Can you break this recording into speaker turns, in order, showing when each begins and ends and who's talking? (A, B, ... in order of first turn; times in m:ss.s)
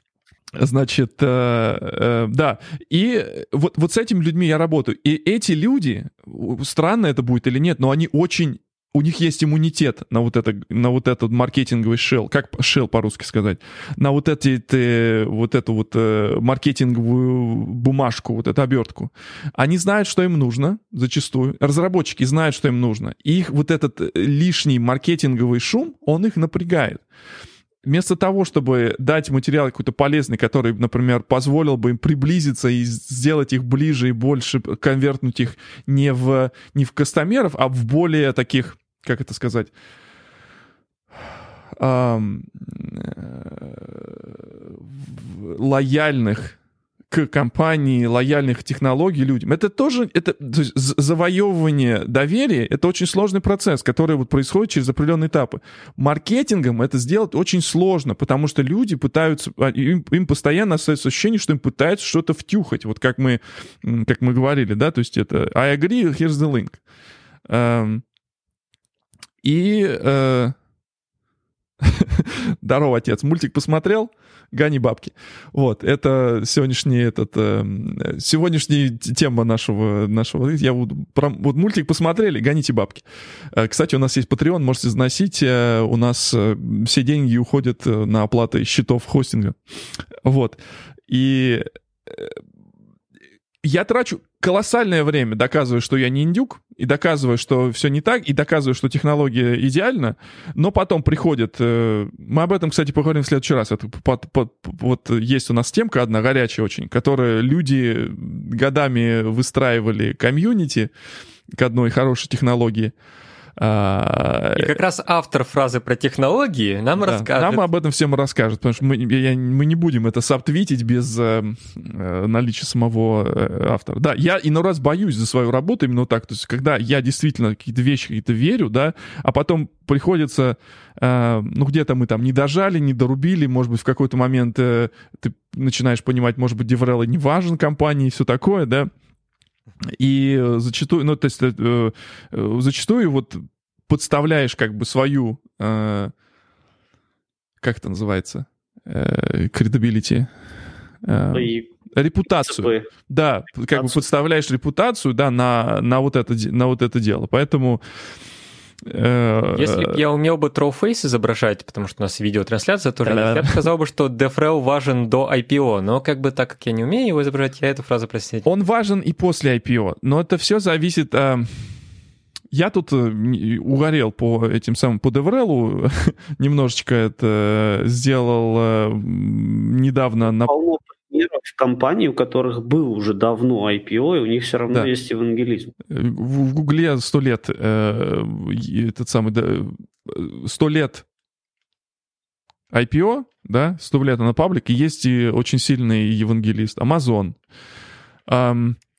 0:00.6-0:27.0 A
0:27.8-0:39.7 A
0:41.8-0:46.6 A
0:47.1-1:06.8 A
1:07.5-1:08.0 A
1:09.4-1:10.6 A
1:11.8-1:29.6 A
1:30.2-1:32.4 A
1:33.6-1:50.9 A
1:51.5-1:52.9 A
1:53.6-1:54.7 A
1:54.6-1:57.6 B
1:57.0-2:18.9 A
2:20.0-2:26.1 A
2:27.6-2:30.3 A
2:31.0-2:37.8 A
2:31.3-2:31.7 C
2:32.3-2:32.9 C
2:33.7-2:34.0 C
2:38.9-2:40.0 A
2:39.6-2:48.5 B
2:43.0-2:43.7 A
2:48.4-2:51.7 A
2:52.5-3:00.5 A
3:00.4-3:05.7 C
3:05.9-3:11.0 A
3:12.7-3:17.4 A
3:18.3-3:18.8 A